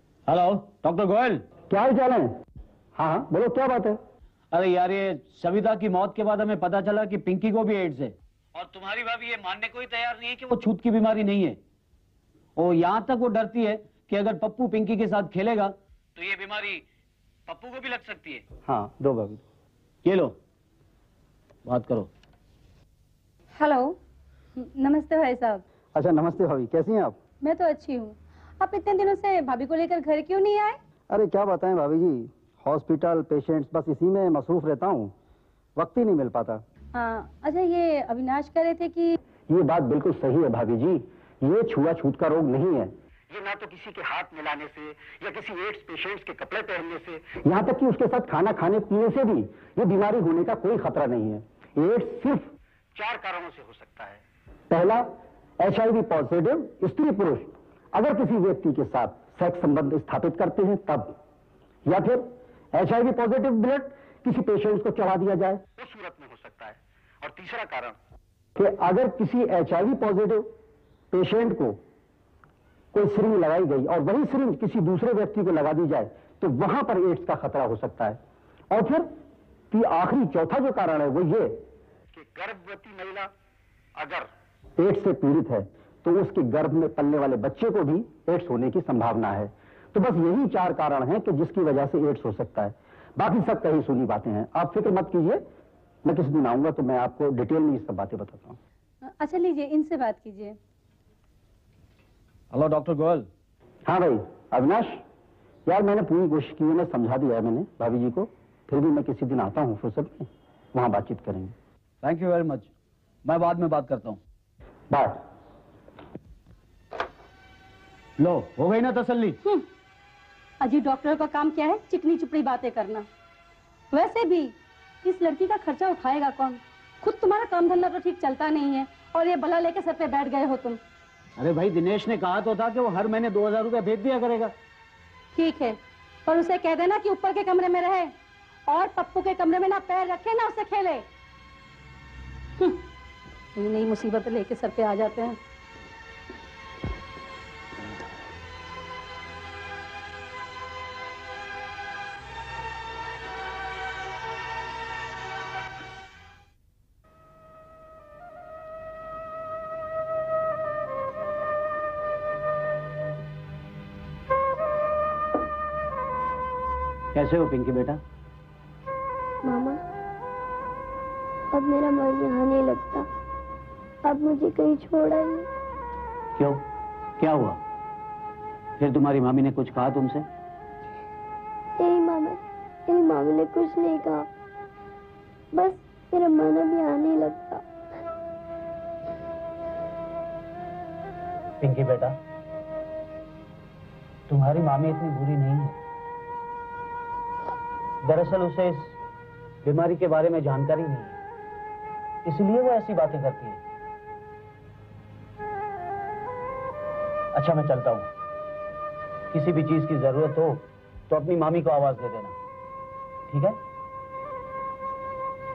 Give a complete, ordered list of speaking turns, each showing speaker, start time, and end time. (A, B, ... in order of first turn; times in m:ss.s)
0:00.3-0:01.4 A
0:01.7-0:02.4 B
0:03.0-0:04.0 B
0:04.5-0:11.6 A
0:12.6-0:16.8 A
0:17.5-0:18.4 A
0:18.7-0:19.4 B
0:20.0-0:20.4 A
0:21.6-0:22.1 A
0:23.6-0:24.0 C
0:24.6-0:25.6 C
0:25.9-0:27.2 B
0:27.4-0:30.8 C
0:31.1-0:35.1 B
0:35.8-0:36.6 B
0:36.9-0:39.2 C
0:39.5-1:01.2 B
1:01.8-1:08.0 B
1:08.6-1:10.5 B
1:11.1-1:11.8 B
1:12.9-1:18.2 B
1:18.7-1:19.2 B
1:19.7-1:23.3 B
1:24.0-1:35.5 B
1:36.0-1:38.6 B
1:39.0-1:40.6 C
1:42.5-1:43.3 A
1:43.9-1:45.0 B
1:45.7-1:51.5 B
1:52.0-1:52.7 A
1:53.2-1:54.2 A
1:54.9-1:55.2 B
1:58.2-1:59.4 A
2:00.6-2:03.0 C
2:03.9-2:10.8 C
2:11.4-2:14.5 A
2:15.4-2:18.1 C
2:18.7-2:21.0 C
2:23.6-2:25.4 C
2:47.1-2:48.0 A
2:49.4-2:49.8 D
2:51.5-2:53.1 D
2:54.0-2:55.5 D
2:56.4-2:56.6 A
2:57.2-2:57.6 A
2:58.8-3:00.2 A
3:01.8-3:04.3 D
3:05.5-3:07.6 D
3:11.6-3:12.2 A
3:14.3-3:15.8 A
3:18.0-3:19.0 A
3:19.6-3:21.2 A
3:22.2-3:23.6 A
3:27.3-3:28.1 A
3:29.3-3:32.4 A
3:33.3-3:33.6 A